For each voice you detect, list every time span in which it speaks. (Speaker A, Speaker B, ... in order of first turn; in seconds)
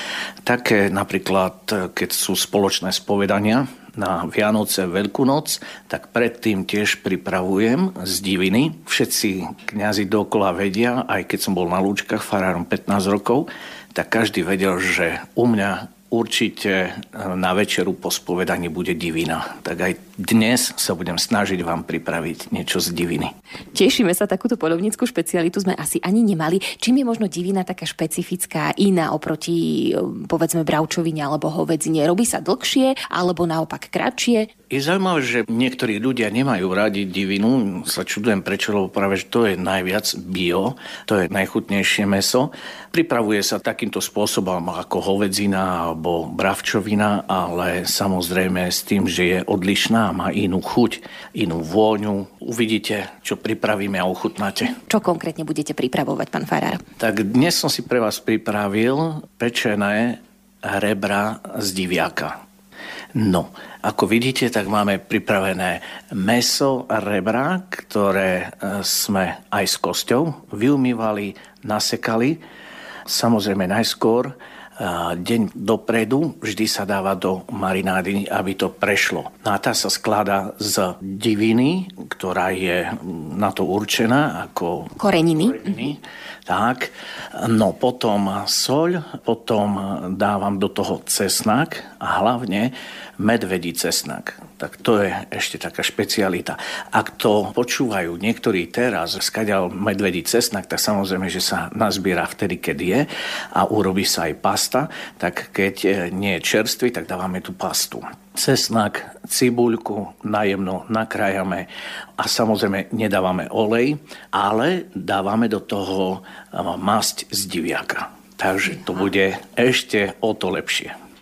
Speaker A: 0.4-23.3, 34.7-54.7, 57.0-62.4, 63.1-72.4, 73.1-85.0, 85.5-111.7, 112.2-120.9
Speaker B: 23.7-34.5, 54.9-56.8, 85.0-85.7